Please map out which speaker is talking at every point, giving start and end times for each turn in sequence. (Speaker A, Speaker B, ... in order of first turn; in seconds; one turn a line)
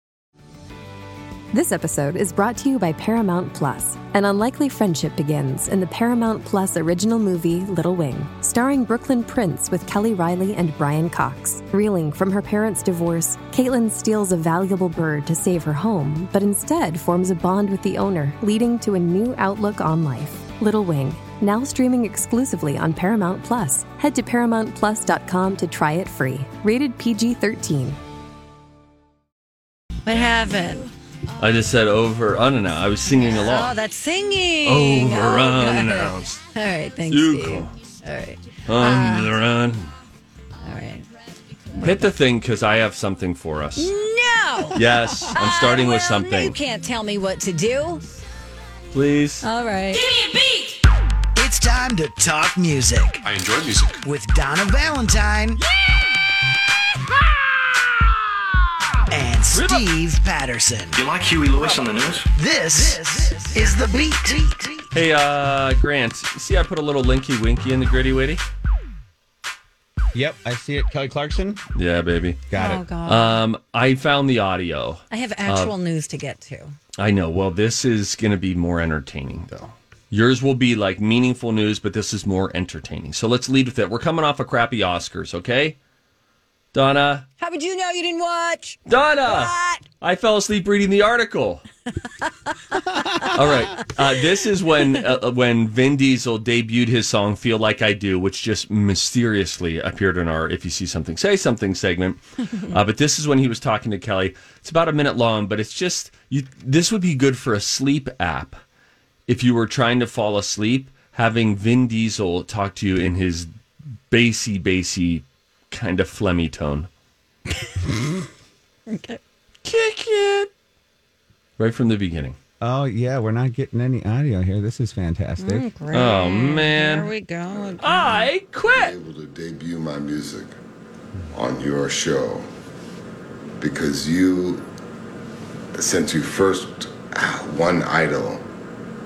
Speaker A: 1.5-28.0
Speaker B: 30.0-30.9
Speaker C: 31.4-33.7
Speaker B: 33.3-39.3
Speaker C: 34.6-36.4
Speaker C: 37.1-37.7
Speaker C: 38.7-39.9
Speaker B: 40.6-41.0
Speaker C: 41.8-43.9
Speaker B: 43.8-48.0
Speaker C: 44.7-46.5
Speaker C: 48.9-49.5
Speaker B: 49.4-50.3
Speaker D: 51.4-53.2
Speaker E: 53.2-54.0
Speaker D: 54.0-55.6
Speaker D: 59.1-61.0
Speaker C: 59.5-59.9
Speaker E: 60.9-62.3
Speaker D: 62.3-64.8
Speaker C: 64.9-68.4
Speaker F: 70.1-71.6
Speaker C: 71.7-72.4
Speaker F: 72.5-72.8
Speaker B: 72.5-73.4
Speaker C: 73.0-75.7
Speaker B: 75.1-76.7
Speaker C: 77.0-85.8
Speaker C: 86.7-87.2
Speaker B: 87.4-89.8
Speaker C: 88.9-91.6
Speaker B: 92.8-93.3
Speaker C: 93.3-108.6
Speaker C: 109.3-113.5
Speaker C: 114.1-116.9
Speaker B: 118.9-119.2
Speaker C: 119.6-120.5
Speaker C: 121.6-122.4
Speaker F: 122.6-125.7
Speaker B: 125.4-128.3
Speaker C: 125.9-127.1
Speaker G: 127.6-127.9
Speaker C: 127.8-128.9
Speaker G: 128.7-130.5
Speaker G: 131.3-132.4
Speaker G: 133.6-134.7
Speaker G: 135.7-138.4